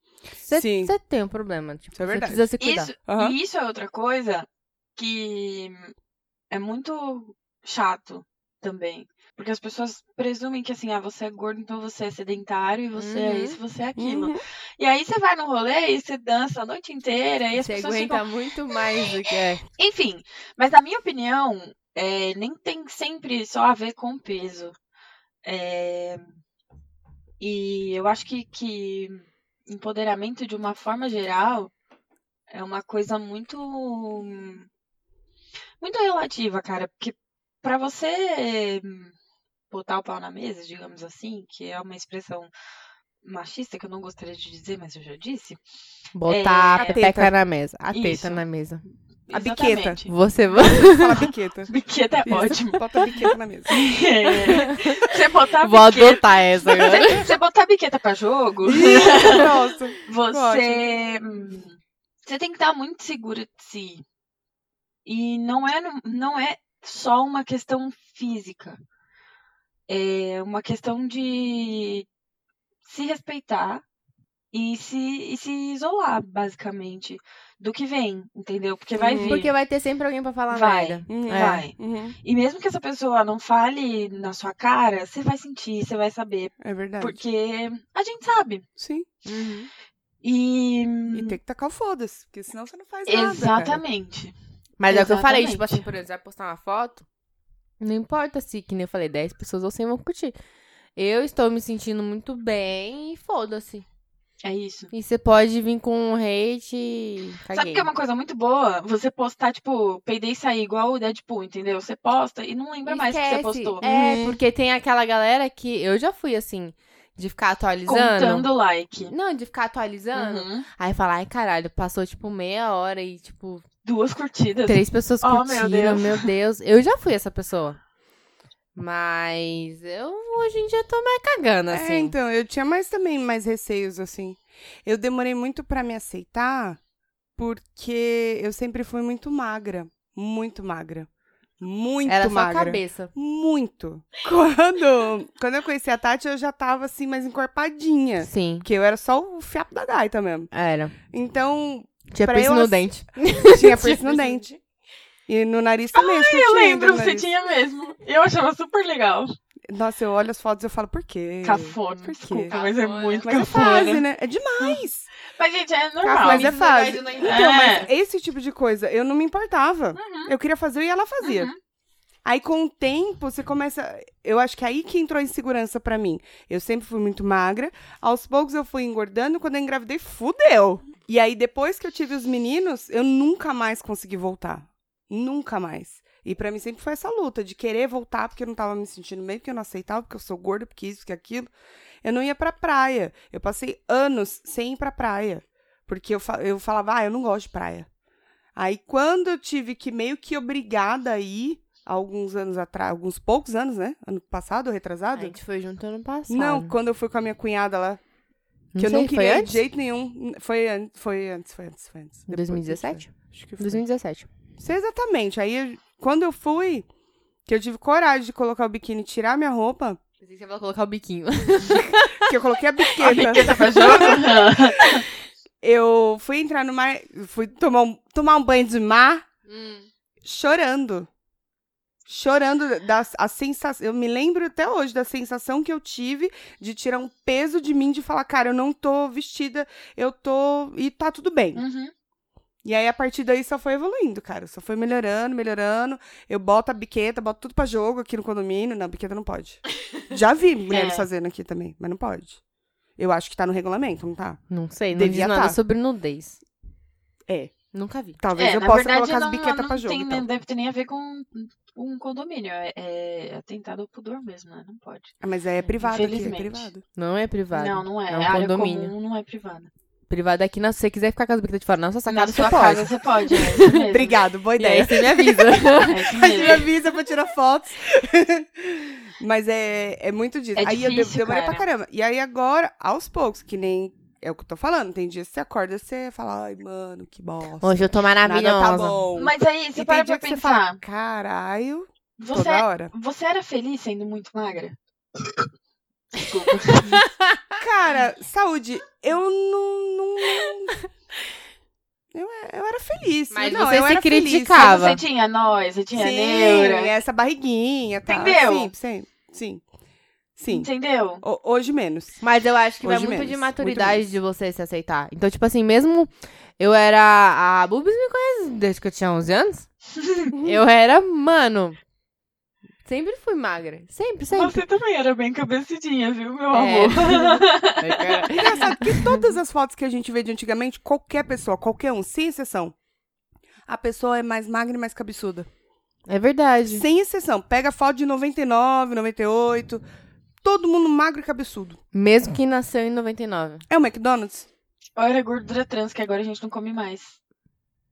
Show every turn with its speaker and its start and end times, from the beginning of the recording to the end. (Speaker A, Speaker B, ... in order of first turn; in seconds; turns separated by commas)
Speaker A: 0.5-2.9, Speaker B: 0.5-0.9, Speaker B: 1.9-2.5, Speaker C: 2.6-5.9, Speaker B: 3.1-3.4, Speaker C: 6.5-18.2, Speaker A: 12.9-13.6, Speaker B: 14.0-14.4, Speaker A: 17.5-19.6, Speaker C: 19.8-24.8, Speaker C: 25.4-26.2, Speaker C: 27.4-31.7, Speaker C: 32.5-34.7, Speaker C: 35.8-39.1, Speaker C: 39.7-42.5, Speaker C: 43.2-45.6, Speaker A: 46.1-48.8, Speaker C: 46.3-47.0, Speaker B: 46.8-47.3, Speaker C: 47.9-48.4, Speaker C: 49.3-50.1, Speaker B: 49.3-51.7, Speaker A: 50.1-51.3, Speaker C: 51.7-52.9, Speaker B: 52.2-53.8, Speaker C: 53.7-59.5, Speaker A: 54.5-55.0, Speaker A: 55.6-57.3, Speaker B: 58.6-60.9, Speaker C: 60.0-64.0, Speaker C: 65.0-68.8, Speaker C: 69.9-72.1, Speaker C: 72.8-73.8, Speaker C: 74.5-79.5, Speaker B: 79.0-79.4, Speaker A: 79.2-81.7, Speaker C: 80.5-88.7, Speaker B: 81.1-82.2, Speaker B: 86.6-87.2, Speaker B: 88.8-89.1, Speaker A: 89.3-89.7, Speaker C: 90.2-91.4, Speaker B: 91.1-93.8, Speaker C: 93.1-94.3, Speaker A: 94.8-97.0, Speaker C: 94.9-95.9, Speaker A: 97.8-100.3, Speaker A: 101.0-103.8, Speaker C: 104.4-104.9, Speaker A: 104.9-107.9, Speaker C: 107.5-113.9, Speaker A: 112.9-118.5, Speaker B: 113.8-114.4, Speaker C: 117.9-119.1, Speaker A: 119.1-123.6, Speaker C: 120.1-120.7, Speaker C: 123.8-126.3, Speaker A: 124.7-127.8, Speaker A: 128.8-132.2, Speaker B: 131.7-136.8, Speaker B: 137.4-141.1, Speaker B: 141.6-150.5, Speaker A: 142.1-143.1, Speaker A: 148.2-148.7, Speaker A: 150.5-150.9, Speaker B: 151.1-154.5, Speaker A: 152.1-154.5, Speaker B: 155.3-157.3, Speaker C: 155.9-159.4, Speaker B: 159.7-162.5, Speaker C: 161.4-164.1, Speaker A: 162.5-163.9, Speaker B: 163.2-165.1, Speaker C: 164.6-166.5, Speaker B: 166.0-171.5, Speaker A: 166.2-167.9, Speaker C: 167.2-167.9, Speaker C: 169.9-170.3, Speaker C: 171.2-171.6, Speaker B: 172.2-191.5, Speaker B: 192.0-197.9, Speaker B: 198.6-205.4, Speaker A: 205.1-206.7, Speaker B: 206.3-208.0, Speaker A: 208.7-209.6, Speaker B: 208.8-213.8, Speaker A: 212.3-214.3, Speaker B: 214.6-216.9, Speaker B: 217.5-220.0, Speaker A: 220.2-222.3, Speaker B: 222.2-224.5, Speaker C: 223.0-225.1, Speaker A: 223.4-224.8, Speaker B: 225.6-229.3, Speaker A: 229.5-229.9, Speaker B: 230.2-231.1, Speaker B: 232.1-241.6, Speaker C: 241.6-241.9, Speaker B: 242.6-252.4, Speaker C: 250.7-251.1, Speaker B: 253.0-254.4, Speaker A: 254.5-256.4, Speaker B: 254.9-255.6, Speaker B: 257.3-257.5, Speaker A: 257.7-258.2, Speaker B: 258.2-260.3, Speaker C: 258.4-265.1, Speaker B: 265.2-266.8, Speaker C: 265.8-266.7, Speaker A: 267.0-268.9, Speaker C: 267.5-269.7, Speaker A: 270.1-273.8, Speaker C: 272.1-274.2, Speaker B: 273.8-292.9, Speaker A: 274.6-276.2, Speaker C: 275.9-276.7, Speaker C: 280.6-281.6, Speaker A: 287.6-289.0, Speaker C: 289.1-290.8, Speaker C: 292.2-294.8, Speaker C: 296.2-297.1, Speaker A: 296.9-297.4, Speaker B: 297.6-300.8, Speaker B: 302.1-304.8, Speaker A: 303.3-305.0, Speaker C: 304.6-306.9, Speaker B: 305.9-309.6, Speaker C: 308.1-308.7, Speaker B: 310.4-310.7, Speaker C: 310.5-311.2, Speaker B: 311.2-312.2, Speaker A: 312.2-319.7, Speaker B: 312.8-314.1, Speaker C: 320.0-320.3, Speaker B: 320.4-320.6, Speaker A: 320.4-321.8, Speaker A: 322.9-324.6, Speaker C: 324.3-328.3, Speaker A: 326.5-329.1, Speaker B: 328.4-332.8, Speaker B: 333.7-335.5, Speaker A: 336.1-336.9, Speaker B: 336.7-339.8, Speaker B: 340.4-341.8, Speaker A: 341.9-343.6, Speaker B: 343.7-344.5, Speaker C: 345.0-347.2